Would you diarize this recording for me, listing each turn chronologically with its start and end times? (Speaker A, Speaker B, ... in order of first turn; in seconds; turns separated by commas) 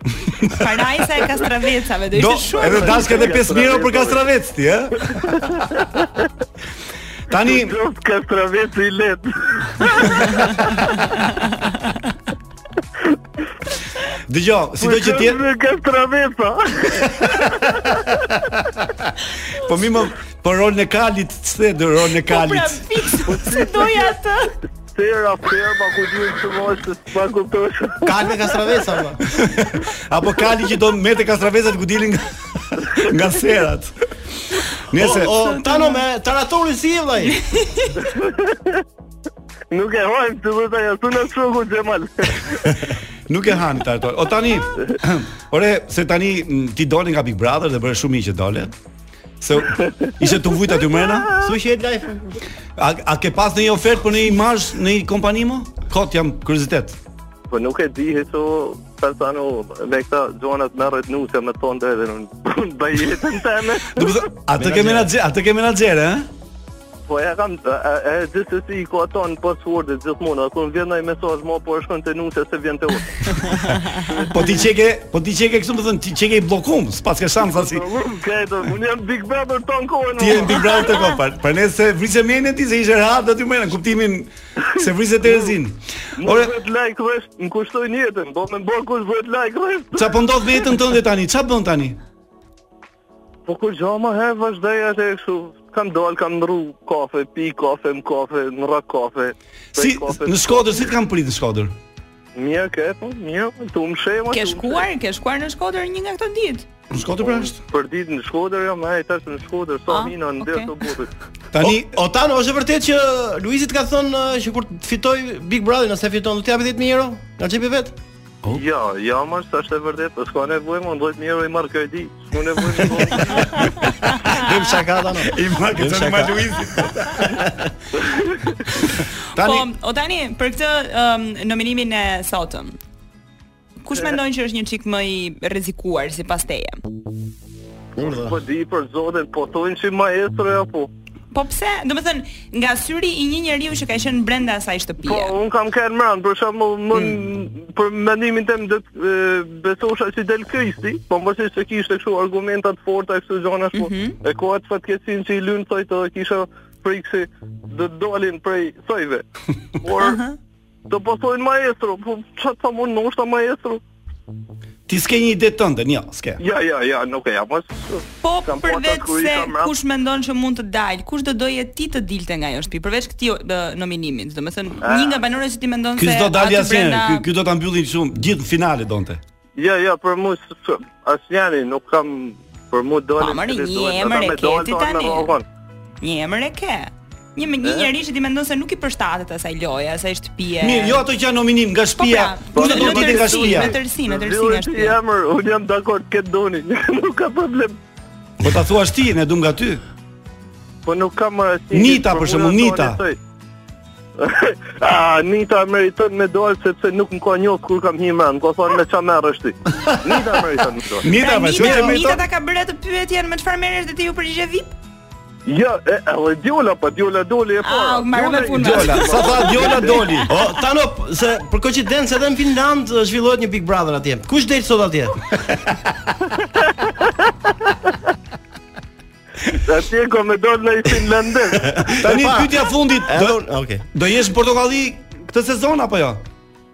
Speaker A: 0.5-3.3, Speaker B: 2.1-5.5, Speaker C: 2.6-4.2, Speaker C: 5.0-6.2, Speaker B: 7.3-7.8, Speaker C: 7.3-10.8, Speaker B: 14.3-15.4, Speaker C: 14.8-18.2, Speaker B: 17.2-17.9, Speaker B: 18.5-18.8, Speaker B: 19.5-22.8, Speaker A: 22.3-24.5, Speaker C: 23.2-24.1, Speaker C: 24.9-28.2, Speaker D: 28.0-29.2, Speaker B: 29.3-33.9, Speaker B: 34.9-35.5, Speaker D: 34.9-37.4, Speaker A: 35.6-36.0, Speaker A: 37.4-38.0, Speaker C: 38.0-38.8, Speaker C: 39.7-42.7, Speaker B: 43.3-48.7, Speaker B: 49.4-51.3, Speaker C: 49.8-50.1, Speaker D: 51.4-52.4, Speaker B: 52.8-57.0, Speaker C: 57.5-64.2, Speaker B: 63.8-66.3, Speaker D: 64.6-65.1, Speaker C: 67.1-74.2, Speaker B: 74.2-77.8, Speaker C: 77.4-81.0, Speaker B: 80.2-86.5, Speaker C: 85.2-85.5, Speaker C: 86.2-90.2, Speaker B: 89.9-92.0, Speaker C: 93.5-100.8, Speaker B: 99.7-101.7, Speaker C: 102.3-104.8, Speaker A: 104.3-106.7, Speaker B: 106.9-107.6, Speaker C: 107.2-111.1, Speaker A: 109.9-110.8, Speaker B: 111.5-111.9, Speaker D: 111.6-118.0, Speaker C: 118.5-123.6, Speaker D: 124.2-127.7, Speaker B: 125.3-127.5, Speaker C: 128.1-128.5, Speaker B: 129.3-129.7, Speaker A: 129.3-132.8, Speaker A: 133.8-136.8, Speaker D: 137.9-138.4, Speaker C: 138.0-140.9, Speaker A: 141.3-145.3, Speaker C: 145.0-159.2, Speaker A: 146.9-147.2, Speaker A: 153.7-154.2, Speaker C: 159.8-160.2, Speaker A: 160.0-160.4, Speaker C: 160.9-163.8, Speaker B: 164.9-166.4, Speaker C: 166.4-169.7, Speaker A: 168.2-177.2, Speaker C: 174.8-175.2, Speaker B: 176.0-179.2, Speaker C: 179.6-185.4, Speaker A: 183.2-185.3, Speaker A: 186.0-191.0, Speaker C: 187.6-187.9, Speaker B: 190.6-193.8, Speaker A: 192.0-195.0, Speaker C: 192.5-197.8, Speaker B: 198.4-199.8, Speaker C: 200.8-203.2, Speaker B: 201.7-203.0, Speaker C: 204.2-211.0, Speaker B: 209.9-210.1, Speaker B: 211.0-212.2, Speaker A: 211.1-214.7, Speaker D: 211.6-211.9, Speaker C: 215.4-219.9, Speaker A: 217.6-220.3, Speaker B: 218.6-220.3, Speaker D: 220.3-225.2, Speaker C: 229.6-231.7, Speaker D: 231.6-233.8, Speaker B: 231.9-236.2